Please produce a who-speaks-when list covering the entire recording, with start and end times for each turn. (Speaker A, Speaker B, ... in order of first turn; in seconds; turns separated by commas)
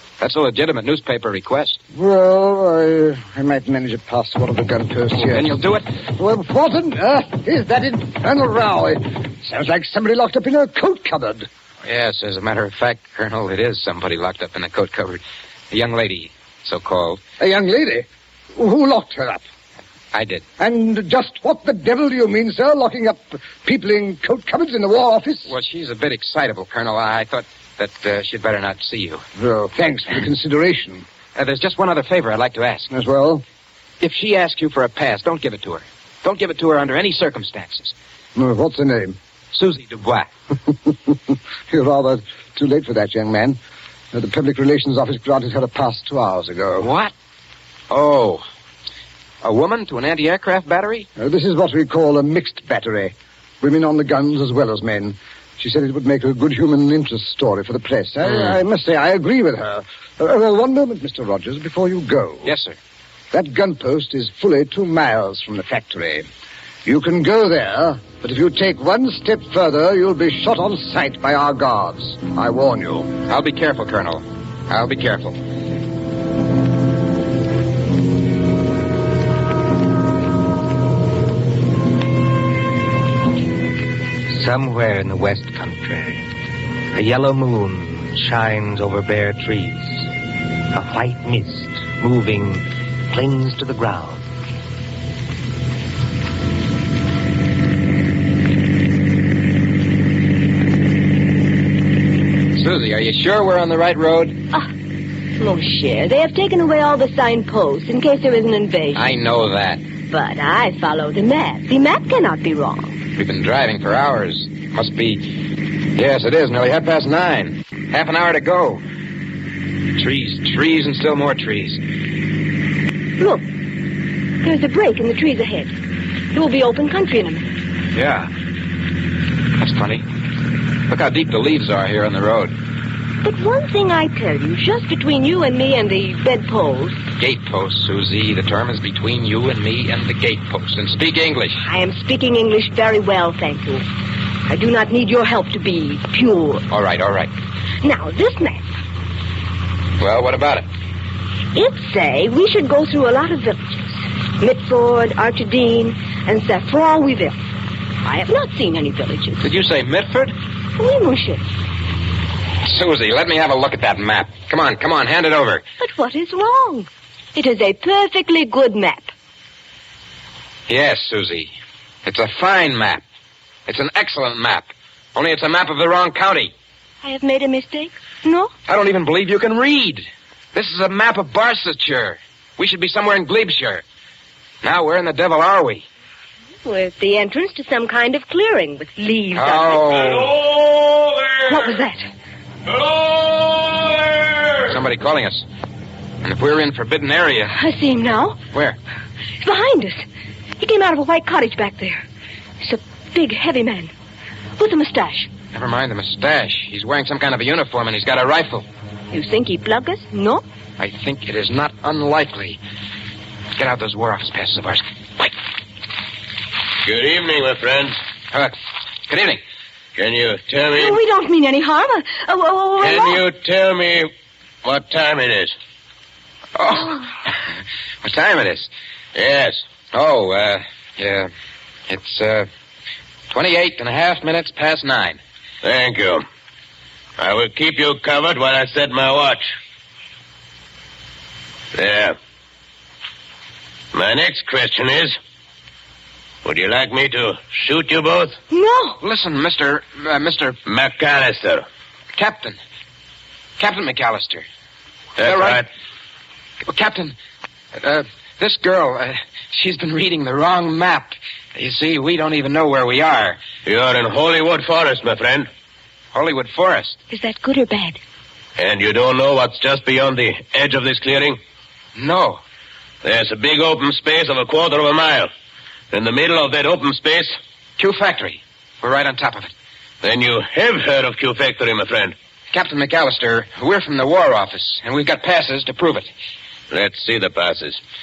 Speaker A: 0.2-1.8, Speaker B: 1.9-11.5, Speaker A: 5.2-5.8, Speaker A: 11.8-17.2, Speaker B: 17.4-19.4, Speaker A: 20.1-20.4, Speaker B: 20.6-25.5, Speaker A: 25.5-29.2, Speaker B: 29.4-31.0, Speaker A: 31.4-32.9, Speaker B: 32.9-33.4, Speaker A: 34.0-37.9, Speaker B: 38.3-39.2, Speaker A: 39.5-40.3, Speaker B: 40.7-43.6, Speaker B: 44.1-46.9, Speaker A: 46.8-47.1, Speaker A: 47.9-48.4, Speaker A: 49.4-51.1, Speaker B: 51.2-62.5, Speaker A: 62.4-62.8, Speaker B: 63.3-66.2, Speaker B: 66.8-73.1, Speaker A: 73.2-75.4, Speaker C: 84.3-86.2, Speaker C: 86.9-90.1, Speaker C: 90.7-94.2, Speaker A: 102.5-104.4, Speaker D: 105.4-109.1, Speaker A: 109.0-109.8, Speaker D: 110.1-113.0, Speaker A: 113.1-118.8, Speaker A: 119.9-121.8, Speaker D: 123.2-123.5, Speaker D: 124.4-125.7, Speaker D: 126.3-127.5, Speaker A: 127.9-128.3, Speaker A: 129.6-130.0, Speaker A: 130.9-132.5, Speaker D: 133.2-137.0, Speaker A: 137.2-141.6, Speaker D: 141.6-143.8, Speaker D: 144.5-146.6, Speaker A: 146.7-147.3, Speaker D: 147.8-148.6, Speaker A: 150.0-150.7, Speaker D: 151.5-157.4, Speaker D: 158.0-159.5, Speaker A: 159.4-160.3, Speaker D: 160.8-161.4, Speaker A: 162.6-165.6, Speaker D: 165.8-169.1, Speaker A: 170.7-171.5, Speaker A: 172.0-173.0, Speaker A: 173.7-176.5, Speaker D: 177.0-178.5, Speaker A: 178.7-183.8, Speaker A: 184.6-185.8, Speaker D: 186.6-190.1, Speaker A: 189.3-190.3, Speaker D: 191.4-192.1, Speaker A: 194.7-195.4, Speaker A: 196.2-197.5, Speaker D: 197.5-198.4, Speaker D: 199.4-200.0, Speaker D: 200.6-202.0, Speaker D: 202.6-203.9, Speaker D: 204.6-205.3, Speaker A: 205.5-208.7, Speaker D: 209.1-210.4, Speaker A: 210.8-212.6, Speaker A: 213.6-215.3, Speaker E: 216.8-218.0, Speaker A: 219.1-219.4, Speaker E: 219.9-220.9, Speaker D: 220.7-223.2, Speaker E: 222.8-224.1, Speaker E: 224.6-225.5, Speaker A: 226.6-227.3, Speaker A: 228.0-228.7, Speaker E: 229.1-229.6, Speaker A: 229.9-231.3, Speaker A: 231.9-232.5, Speaker A: 233.3-235.2, Speaker E: 235.6-236.2, Speaker E: 237.2-239.5, Speaker E: 241.7-242.2, Speaker E: 243.9-245.2, Speaker E: 246.4-248.4, Speaker D: 248.5-249.0, Speaker A: 249.0-250.6, Speaker E: 250.7-251.6, Speaker A: 252.1-252.6, Speaker A: 253.6-254.4, Speaker A: 255.2-255.7, Speaker E: 255.2-255.7, Speaker A: 256.6-257.1, Speaker A: 257.7-263.4, Speaker E: 263.6-265.5, Speaker A: 266.1-267.0, Speaker D: 267.1-268.0, Speaker E: 268.6-271.4, Speaker A: 271.9-272.4, Speaker E: 273.0-275.3, Speaker E: 275.9-277.4, Speaker A: 277.8-279.5, Speaker E: 280.0-282.1, Speaker A: 282.5-286.1, Speaker E: 286.7-287.8